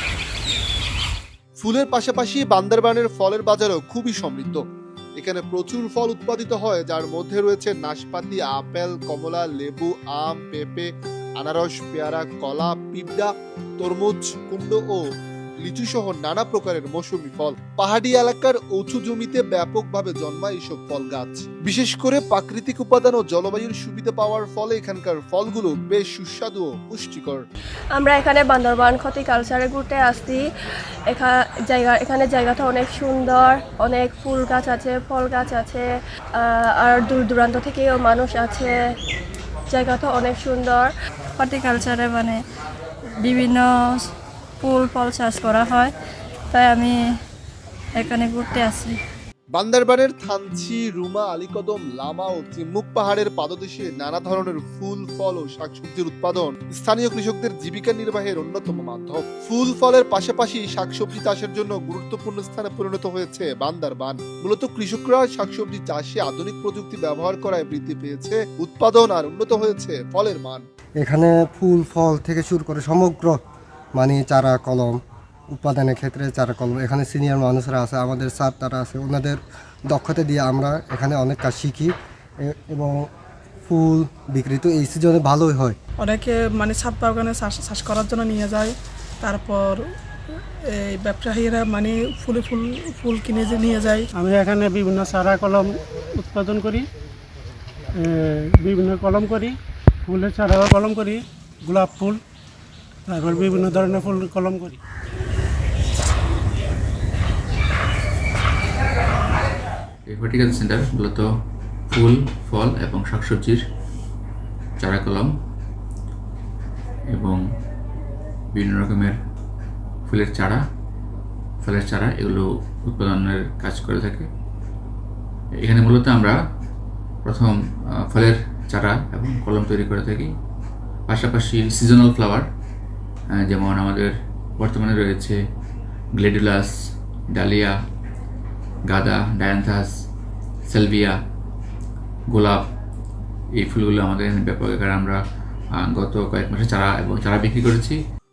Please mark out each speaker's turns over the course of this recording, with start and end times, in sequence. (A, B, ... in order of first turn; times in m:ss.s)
0:01.6-0:04.6 A
0:05.2-0:10.9 A
0:11.4-0:15.0 A
0:15.6-0:27.4 A
0:27.9-0:30.5 B
0:31.1-0:38.8 B
0:39.7-0:40.9 B
0:41.4-0:42.4 C
0:43.2-0:44.1 C
0:44.6-0:45.9 C
0:46.5-0:47.0 C
0:47.9-0:49.0 C
0:49.5-1:10.6 A
1:11.0-1:13.4 D
1:14.0-1:15.0 D
1:15.5-1:23.1 D
1:23.7-1:25.8 D
1:26.0-1:29.9 E
1:30.7-1:34.1 E
1:34.1-1:36.9 F
1:38.0-1:42.2 F
1:43.1-1:44.8 F
1:50.1-1:51.3 G
1:51.9-1:53.6 G
1:54.8-1:55.3 G
1:57.1-1:57.4 G
1:58.5-1:59.2 G
2:00.1-2:00.6 G
2:01.6-2:04.3 G
2:05.6-2:06.4 G
2:07.2-2:07.6 G
2:08.1-2:10.3 G
2:11.1-2:12.5 G
2:13.3-2:15.4 G
2:16.2-2:16.7 G
2:17.3-2:17.7 G
2:18.9-2:19.9 G
2:20.7-2:21.2 G
2:22.3-2:22.6 G
2:23.6-2:25.2 G
2:25.8-2:28.0 G